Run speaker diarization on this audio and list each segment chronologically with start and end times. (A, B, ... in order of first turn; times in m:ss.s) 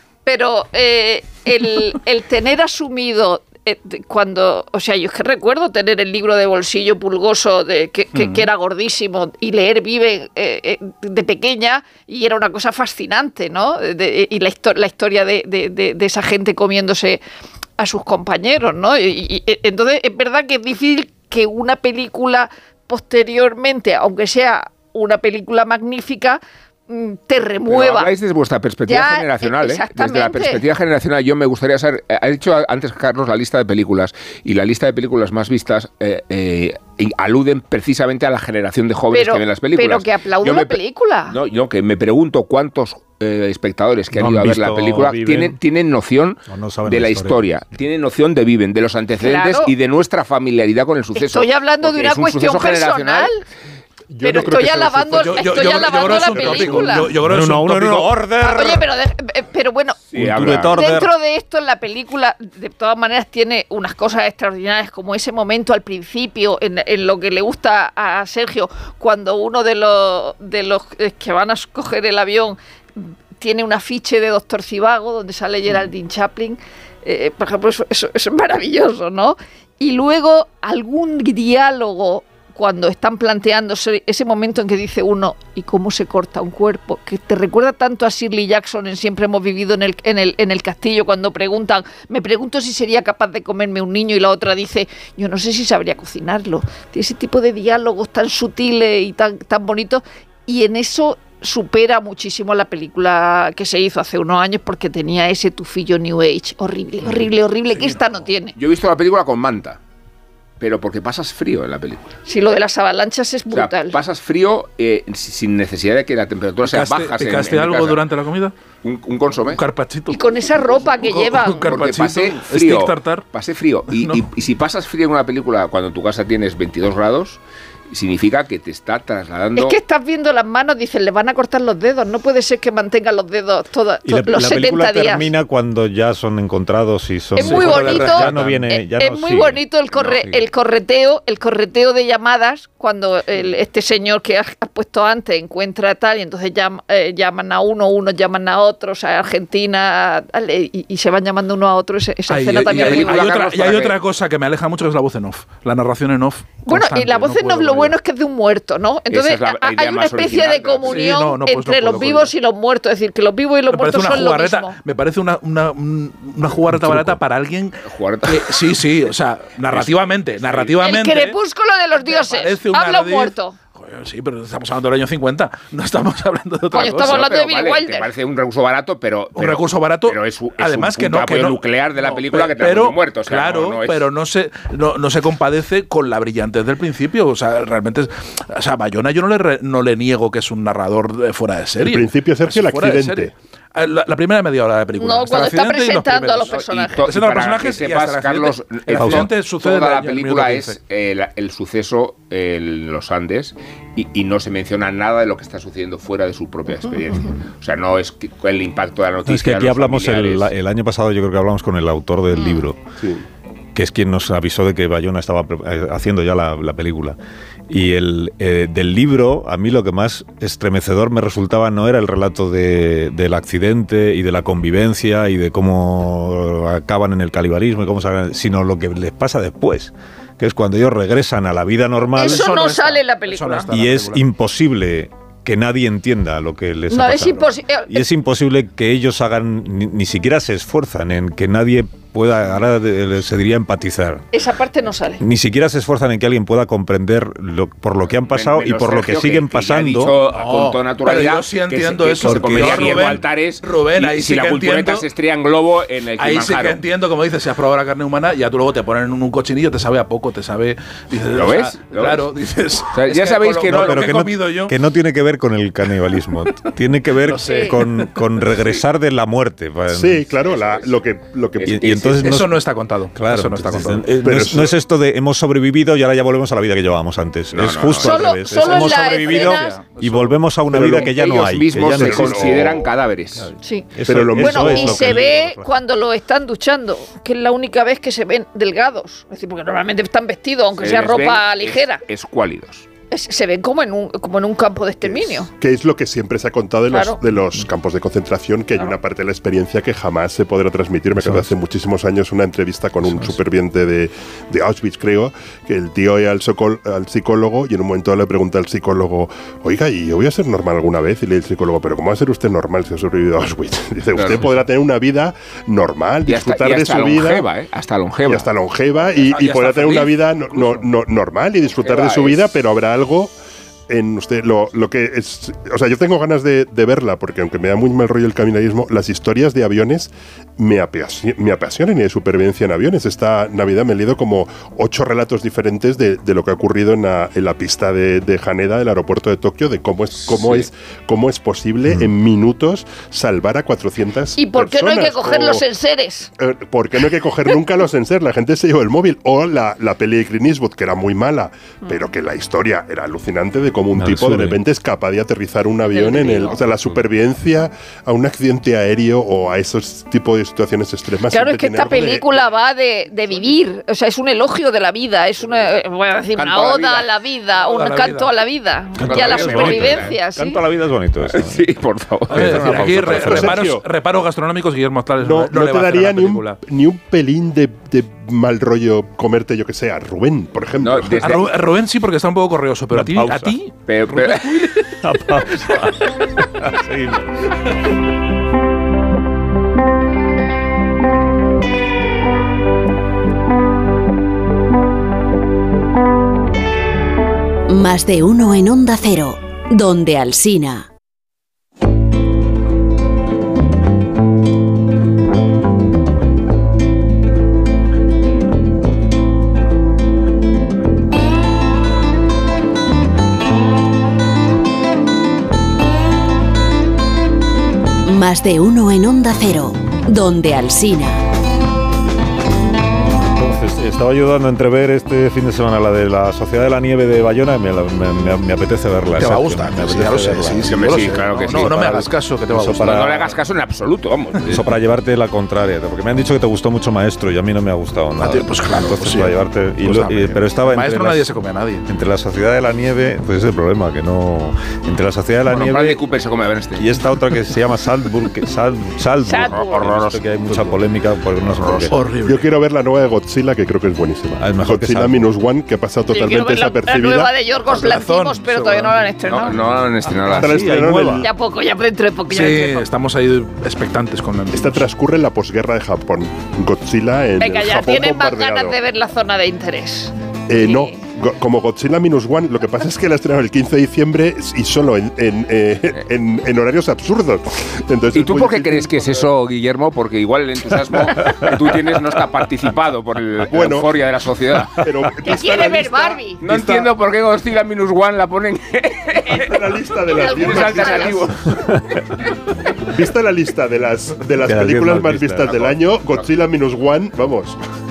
0:00.2-0:17.2 A
0:08.1-0:08.5 B
0:17.8-0:28.1 A
0:27.7-0:53.3 C
0:28.9-0:30.6 A
0:39.1-0:41.4 A
0:44.1-0:45.6 D
0:46.5-0:47.4 D
0:49.2-0:49.7 A
0:51.2-0:53.4 A
0:54.1-0:56.9 E
0:54.2-0:57.2 A
0:55.2-0:58.0 B
0:57.2-0:58.9 D
0:58.4-1:00.1 A
1:00.1-1:00.9 C
1:00.2-1:01.1 D
1:00.7-1:48.6 A
1:47.8-1:48.0 B
1:48.6-1:49.8 C
1:50.6-1:52.2 C
1:52.3-1:54.0 A
1:53.5-1:58.0 C
1:56.6-1:58.5 B
1:58.8-1:59.6 C
1:59.5-2:00.2 B
2:00.1-2:01.8 A
2:00.9-2:03.2 B
2:01.6-2:09.8 C
2:03.9-2:04.2 B
2:09.6-2:15.3 A
2:14.0-2:19.6 D
2:17.4-2:18.6 B
2:17.4-2:33.4 A
2:20.0-2:20.4 C
2:32.3-2:38.0 B
2:32.6-2:34.0 C
2:36.6-2:44.8 A
2:39.1-2:41.1 C
2:40.9-2:42.3 B
2:43.7-2:51.4 B
2:46.7-2:47.2 D
2:47.8-2:48.8 C
2:49.7-2:50.9 C
2:50.8-2:53.6 A
2:52.1-2:57.2 B
2:56.7-2:58.1 A
2:56.8-3:04.1 C
2:59.4-3:20.8 B
3:11.8-3:13.3 E
3:15.0-3:17.1 A
3:16.5-3:30.5 C
3:18.9-3:19.3 D
3:29.3-3:32.8 D
3:33.8-3:37.2 D
3:37.7-3:52.5 D
3:52.2-3:53.7 A
3:52.2-3:54.2 B
3:53.7-4:04.3 D
3:56.9-3:58.0 A
4:04.3-4:05.2 A
4:05.2-4:10.2 D
4:08.3-4:16.8 C
4:10.3-4:15.1 B
4:12.2-4:13.2 D
4:16.2-4:24.8 B
4:21.3-4:22.3 C
4:22.9-4:24.4 C
4:23.7-4:30.3 D
4:27.2-4:28.1 B
4:27.4-4:27.8 A
4:29.9-4:32.2 E
4:30.5-4:31.0 C
4:31.6-4:32.2 C
4:31.6-4:32.6 D
4:32.2-4:34.1 B
4:33.2-4:42.8 D
4:34.2-4:34.8 E
4:37.5-4:38.4 C
4:38.0-4:39.8 A
4:38.6-4:40.4 B
4:40.7-4:42.9 E
4:40.8-4:43.5 C
4:43.6-4:52.0 A
4:44.0-4:45.7 D
4:44.0-4:45.2 E
4:50.8-4:52.9 C
4:53.1-4:55.5 A
4:55.0-5:17.5 E
4:56.9-4:57.2 A
5:01.2-5:01.5 D
5:03.0-5:03.4 D
5:14.2-5:14.5 C
5:16.3-5:18.5 C
5:18.3-5:23.3 E
5:19.3-5:20.8 C
5:21.8-5:22.5 C
5:23.9-5:45.6 E
5:40.2-5:40.7 C
5:41.9-5:42.1 D
5:44.4-5:46.3 A
5:46.4-6:02.2 E
5:54.0-5:54.6 D
5:55.9-5:56.6 A
6:01.3-6:10.6 A
6:06.4-6:07.1 C
6:07.6-6:08.3 B
6:09.0-6:11.7 D
6:09.0-6:10.2 C
6:11.3-6:12.9 C
6:12.3-6:13.7 D
6:12.3-6:16.6 B
6:12.5-6:13.9 E
6:15.2-6:21.4 E
6:20.8-6:21.6 C
6:21.2-6:24.9 B
6:22.9-6:23.6 D
6:23.9-6:24.7 C
6:25.0-6:27.5 D
6:37.7-6:40.9 F
6:58.1-7:01.2 F
7:03.1-7:13.2 D
7:09.2-7:13.4 B
7:10.7-7:12.0 C
7:12.8-7:14.6 C
7:14.5-7:21.3 D
7:18.2-7:21.9 B
7:21.9-7:26.0 D
7:25.5-7:26.9 C
7:26.8-7:32.0 D
7:29.2-7:29.9 A
7:29.5-7:30.2 C
7:31.5-7:31.9 C
7:31.9-7:32.5 B
7:32.2-7:37.3 E
7:34.4-7:35.3 D
7:36.1-7:39.6 A
7:37.7-7:39.0 B
7:39.3-7:40.6 C
7:40.1-7:41.3 D
7:40.2-7:41.3 E
7:41.2-7:42.9 A
7:42.3-7:44.8 B
7:44.5-7:48.8 E
7:47.4-7:51.0 A
7:50.5-7:59.2 E
7:58.1-8:04.8 C
8:01.2-8:01.6 D
8:03.5-8:04.0 E
8:04.8-8:06.9 E
8:05.2-8:06.4 A
8:06.4-8:11.5 C
8:09.3-8:11.3 E
8:10.1-8:11.3 A
8:11.6-8:12.0 D
8:12.8-8:17.6 E
8:14.4-8:15.8 D